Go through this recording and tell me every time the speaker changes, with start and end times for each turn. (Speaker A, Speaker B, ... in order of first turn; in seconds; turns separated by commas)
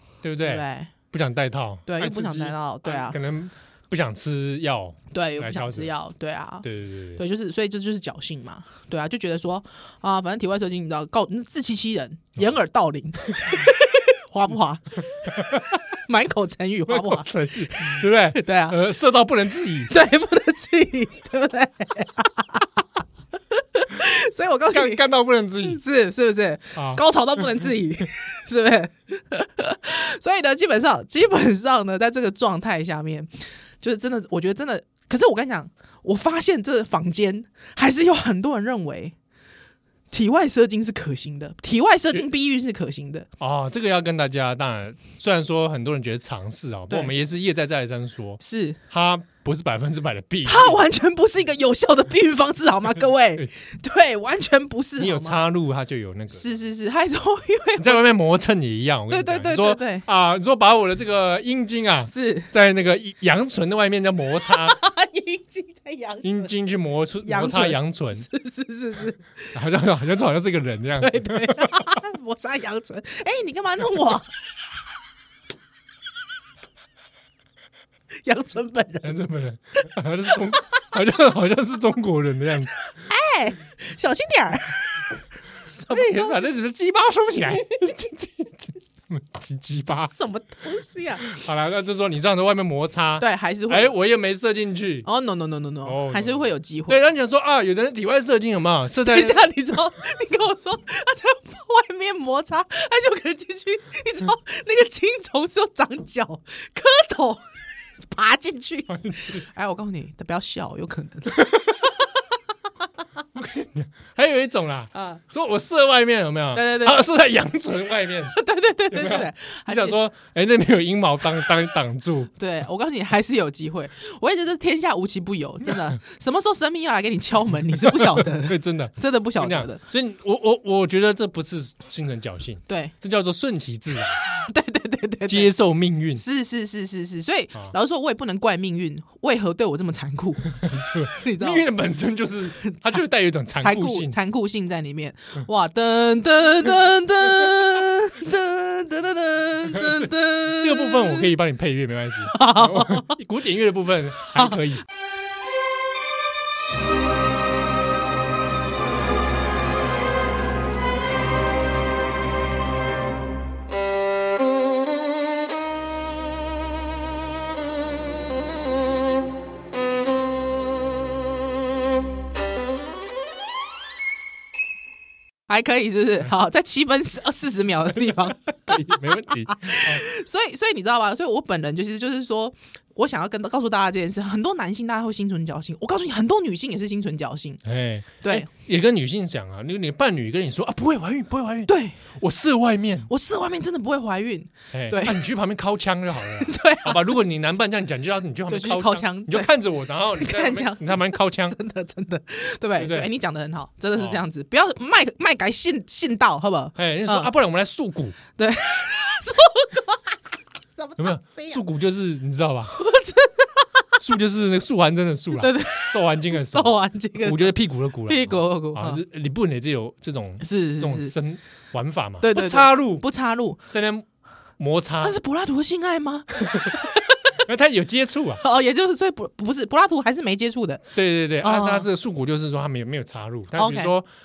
Speaker A: 0.2-5.9, Speaker B: 0.4-0.9, Speaker B: 1.9-3.2, Speaker B: 5.1-15.0, Speaker A: 6.6-7.2, Speaker A: 15.3-15.8, Speaker B: 16.1-17.3, Speaker A: 16.9-19.9, Speaker B: 17.9-18.8, Speaker B: 19.9-22.7, Speaker B: 23.5-25.0, Speaker A: 24.7-25.8, Speaker B: 25.6-39.1, Speaker A: 26.7-27.0, Speaker B: 40.1-43.3, Speaker A: 43.4-50.8, Speaker B: 48.4-48.8, Speaker B: 50.5-55.4, Speaker A: 55.0-56.5, Speaker B: 56.3-58.0, Speaker A: 57.8-64.8, Speaker B: 59.1-60.0, Speaker B: 62.1-62.5, Speaker B: 64.5-66.5, Speaker A: 66.2-68.2, Speaker B: 67.2-69.5, Speaker A: 69.5-72.0, Speaker B: 71.0-74.3, Speaker B: 78.2-79.2, Speaker A: 79.0-82.7, Speaker B: 82.9-85.1, Speaker B: 85.7-86.3, Speaker A: 85.9-90.1, Speaker B: 87.6-88.1, Speaker B: 90.1-91.3, Speaker A: 91.2-95.1, Speaker B: 93.2-93.9, Speaker B: 95.0-97.0, Speaker A: 95.8-99.5, Speaker B: 99.0-107.4, Speaker B: 108.0-112.0, Speaker A: 108.9-109.4, Speaker A: 113.3-118.3, Speaker B: 114.9-115.2, Speaker B: 116.5-117.0, Speaker B: 118.3-120.0, Speaker A: 118.9-122.3, Speaker B: 122.4-129.8, Speaker A: 127.7-134.2, Speaker B: 132.7-132.9, Speaker B: 134.4-135.5, Speaker A: 135.3-136.2, Speaker B: 136.2-140.6, Speaker A: 140.6-144.1, Speaker B: 141.2-141.7, Speaker B: 142.6-143.0, Speaker B: 143.6-151.3, Speaker A: 149.8-154.8, Speaker B: 152.3-153.1, Speaker B: 175.5-187.6, Speaker A: 178.7-180.0, Speaker A: 187.6-193.1, Speaker B: 188.2-188.5, Speaker B: 191.7-192.0, Speaker B: 193.1-195.2, Speaker A: 194.7-201.6, Speaker B: 196.4-197.1, Speaker B: 198.5-199.5, Speaker B: 200.2-207.3, Speaker A: 202.8-203.1, Speaker A: 203.9-204.2, Speaker A: 206.8-208.2, Speaker B: 208.4-210.2, Speaker B: 210.8-211.6, Speaker A: 211.0-212.7, Speaker B: 212.7-213.9, Speaker A: 214.0-223.0, Speaker B: 215.3-217.5, Speaker B: 218.1-219.0, Speaker B: 220.4-221.1, Speaker B: 222.2-223.6, Speaker A: 223.7-224.1, Speaker A: 224.6-225.2, Speaker B: 225.0-227.4, Speaker A: 227.4-228.4, Speaker B: 228.4-230.8, Speaker A: 230.9-234.1, Speaker B: 231.4-231.9, Speaker B: 233.6-233.9